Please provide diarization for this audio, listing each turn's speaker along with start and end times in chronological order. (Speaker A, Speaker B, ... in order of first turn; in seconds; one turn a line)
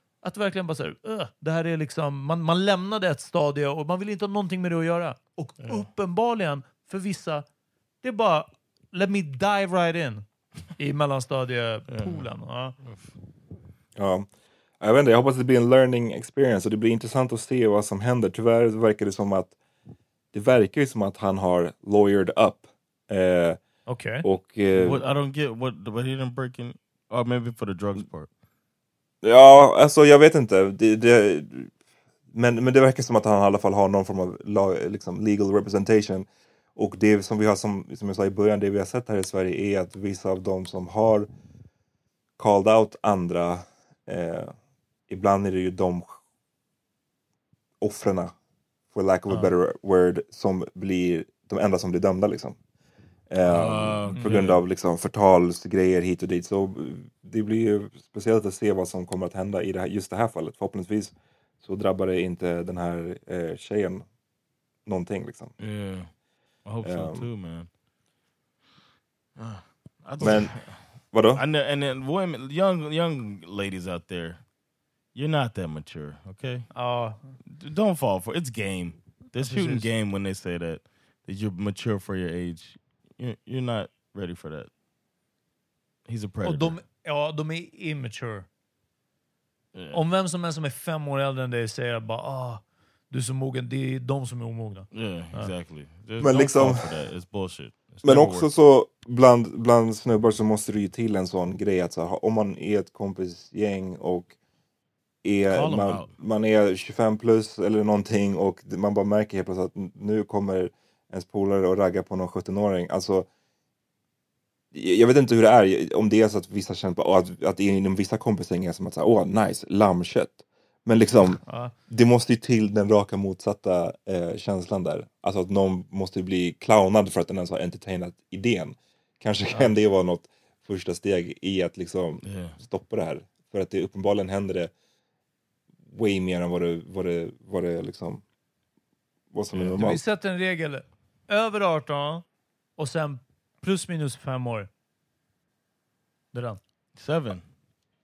Speaker A: 0.2-7.4
Speaker B: 5.6-5.9
Speaker A: 8.0-10.2
Speaker A: 10.8-12.8
Speaker B: 11.9-12.3
Speaker B: 12.8-13.1
Speaker C: 13.9-14.3
Speaker C: 14.8-19.5
Speaker C: 20.3-23.6
Speaker A: 23.9-24.2
Speaker C: 24.2-25.0
Speaker B: 24.7-28.3
Speaker C: 29.2-31.7
Speaker C: 32.3-41.3
Speaker C: 42.4-44.5
Speaker C: 45.1-46.2
Speaker C: 47.8-48.3
Speaker C: 48.9-52.6
Speaker C: 53.3-64.0
Speaker B: 53.5-54.6
Speaker C: 64.8-65.5
Speaker B: 65.6-66.1
Speaker B: 66.6-67.7
Speaker C: 66.8-67.3
Speaker B: 69.4-74.4
Speaker C: 70.2-70.5
Speaker C: 71.1-71.4
Speaker B: 75.1-76.7
Speaker A: 76.7-77.2
Speaker B: 77.5-84.7
Speaker A: 79.4-79.9
Speaker B: 86.0-86.8
Speaker A: 86.4-88.5
Speaker B: 89.7-90.0
Speaker A: 89.9-95.5
Speaker B: 94.9-98.5
Speaker C: 96.2-96.9
Speaker C: 98.0-104.3
Speaker C: 105.2-113.3
Speaker B: 105.5-106.1
Speaker C: 114.7-134.7
Speaker A: 121.5-121.7
Speaker B: 132.2-132.5
Speaker C: 135.8-138.2
Speaker C: 139.3-140.0
Speaker B: 139.5-139.8
Speaker A: 139.8-142.2
Speaker A: 142.8-144.7
Speaker A: 146.3-146.6
Speaker B: 146.9-147.4